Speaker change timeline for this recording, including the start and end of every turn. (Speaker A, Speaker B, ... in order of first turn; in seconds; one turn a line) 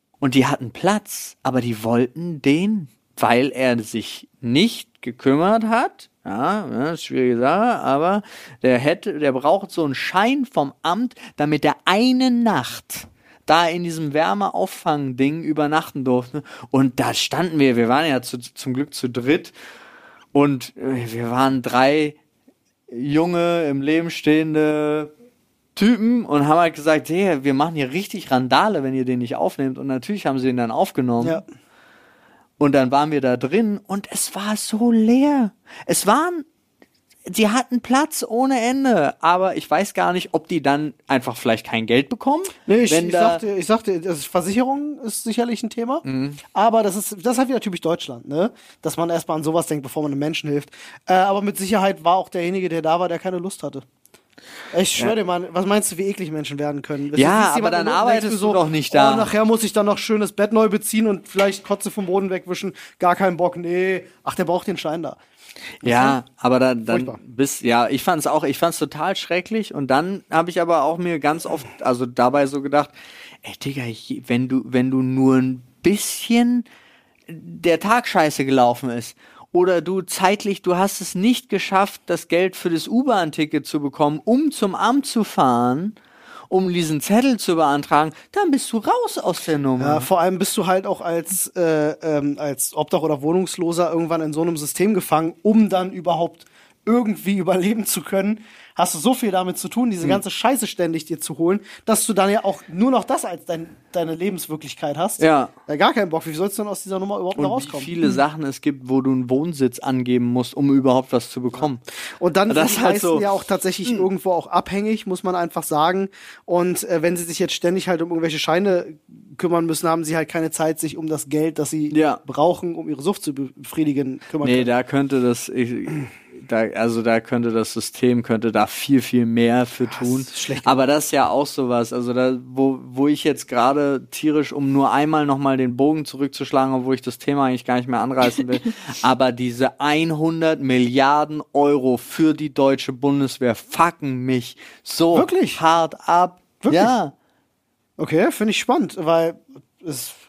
Speaker A: 0.2-19.5
Speaker A: 20.3-22.2
Speaker A: 22.9-25.1
Speaker A: 25.8-31.4
Speaker A: 32.6-36.5
Speaker A: 37.3-43.4
Speaker B: 42.7-53.9
Speaker A: 46.0-46.4
Speaker B: 54.7-65.2
Speaker A: 57.1-59.3
Speaker B: 65.8-66.2
Speaker A: 65.8-72.9
Speaker B: 66.9-67.2
Speaker A: 73.4-76.7
Speaker A: 77.3-86.0
Speaker A: 86.5-90.1
Speaker B: 89.8-107.9
Speaker A: 105.2-105.5
Speaker A: 107.4-111.8
Speaker B: 112.2-124.7
Speaker A: 112.5-113.3
Speaker A: 121.9-122.2
Speaker A: 124.4-147.1
Speaker B: 129.9-130.8
Speaker B: 145.1-145.6
Speaker B: 146.6-147.0
Speaker B: 148.0-150.2